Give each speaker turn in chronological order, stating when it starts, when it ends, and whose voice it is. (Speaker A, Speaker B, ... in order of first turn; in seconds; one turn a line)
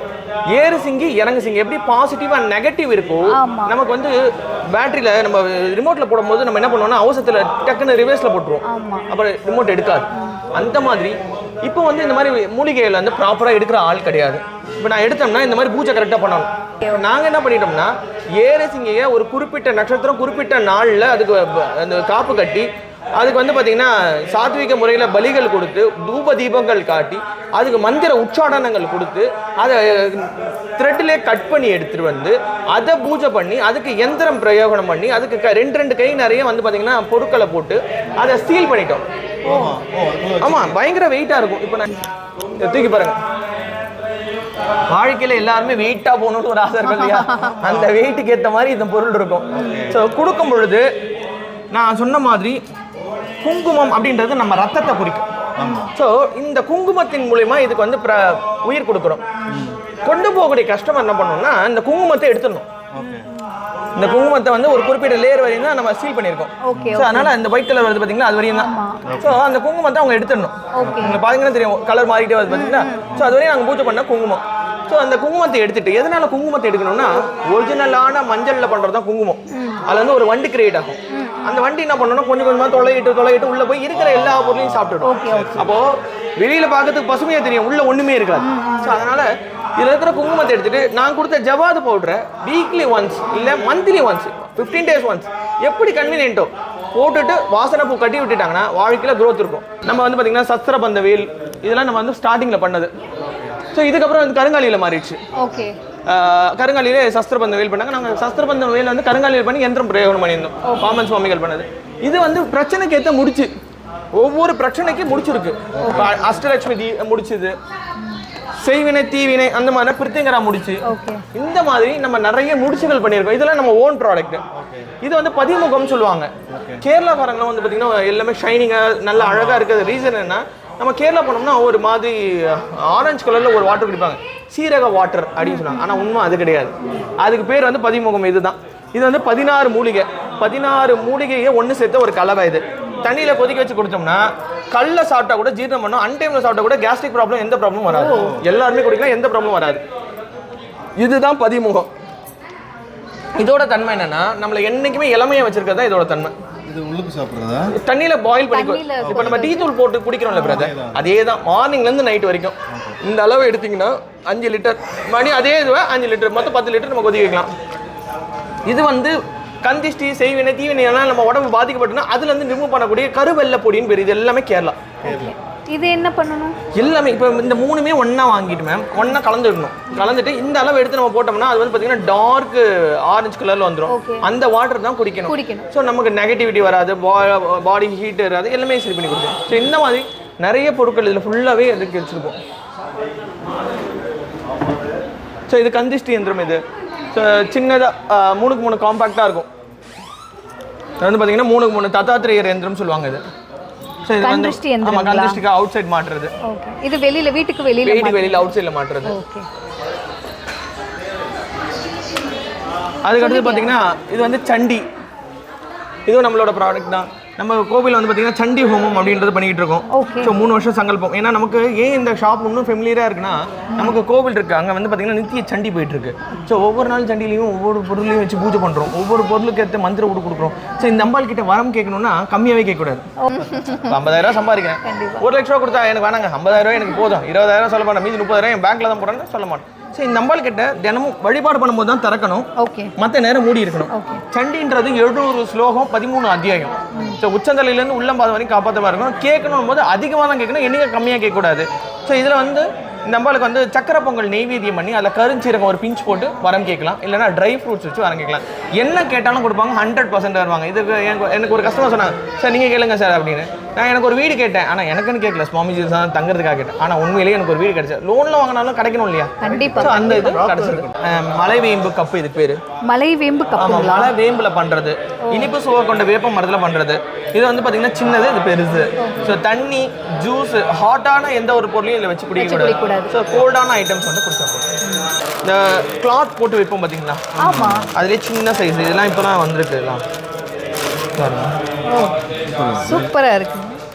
Speaker A: 0.5-4.2
Speaker B: 3.3-3.7
Speaker A: 4.7-39.0
Speaker B: 8.6-9.1
Speaker B: 10.1-10.4
Speaker B: 39.4-39.7
Speaker C: 39.5-40.8
Speaker A: 40.4-41.9
Speaker A: 42.6-43.2
Speaker A: 44.9-50.9
Speaker B: 46.9-47.6
Speaker C: 47.6-47.9
Speaker B: 49.5-49.9
Speaker C: 49.5-50.0
Speaker A: 51.7-52.6
Speaker A: 53.4-55.3
Speaker C: 55.6-55.9
Speaker B: 55.6-55.9
Speaker A: 55.9-59.2
Speaker C: 59.5-59.8
Speaker A: 60.0-62.7
Speaker C: 62.9-63.3
Speaker B: 63.0-63.5
Speaker A: 64.0-102.9
Speaker B: 66.6-67.3
Speaker C: 66.7-67.0
Speaker B: 68.5-69.0
Speaker C: 69.0-69.4
Speaker B: 70.7-71.2
Speaker C: 70.8-71.2
Speaker B: 72.5-73.2
Speaker C: 73.1-73.3
Speaker B: 79.5-79.8
Speaker B: 81.1-81.6
Speaker C: 84.0-85.7
Speaker B: 85.0-85.6
Speaker B: 88.4-88.9
Speaker C: 103.2-103.6
Speaker A: 103.7-105.2
Speaker B: 105.3-105.7
Speaker A: 106.1-113.5
Speaker B: 110.6-111.0
Speaker A: 114.1-117.5
Speaker C: 115.7-116.2
Speaker B: 115.8-116.2
Speaker A: 118.6-124.4
Speaker B: 120.8-121.2
Speaker C: 124.5-124.9
Speaker A: 125.0-149.8
Speaker C: 126.5-126.8
Speaker C: 129.2-129.6
Speaker B: 135.4-136.1
Speaker B: 147.9-148.4
Speaker C: 148.1-148.4
Speaker A: 151.0-151.9
Speaker A: 153.3-156.4
Speaker C: 156.7-157.7
Speaker A: 157.7-167.5
Speaker B: 158.5-159.7
Speaker C: 159.0-159.5
Speaker C: 160.3-161.1
Speaker C: 162.7-163.0
Speaker A: 168.7-174.8
Speaker C: 175.0-175.3
Speaker B: 175.0-176.6
Speaker A: 176.7-192.4
Speaker B: 183.9-184.2
Speaker B: 185.3-185.7
Speaker A: 195.5-196.6
Speaker A: 197.1-199.5
Speaker A: 201.0-203.2
Speaker A: 204.0-206.3
Speaker B: 204.2-205.4
Speaker B: 206.4-208.5
Speaker A: 207.8-209.2
Speaker B: 209.0-209.5
Speaker A: 213.0-214.8
Speaker B: 213.2-213.7
Speaker A: 216.1-233.1
Speaker B: 219.9-220.3
Speaker B: 233.2-234.0
Speaker A: 233.7-272.6
Speaker B: 234.8-235.2
Speaker B: 242.6-242.9
Speaker B: 243.9-244.2
Speaker B: 246.9-247.2
Speaker B: 269.4-270.5
Speaker C: 269.4-270.9
Speaker B: 272.8-274.1
Speaker A: 273.6-284.7
Speaker B: 279.0-279.3
Speaker B: 282.4-283.1
Speaker B: 284.8-285.1
Speaker A: 285.4-287.3
Speaker C: 287.4-287.9
Speaker B: 287.4-287.9
Speaker A: 287.9-290.0
Speaker A: 291.1-291.6
Speaker B: 291.9-292.2
Speaker C: 292.5-293.1
Speaker B: 292.8-293.8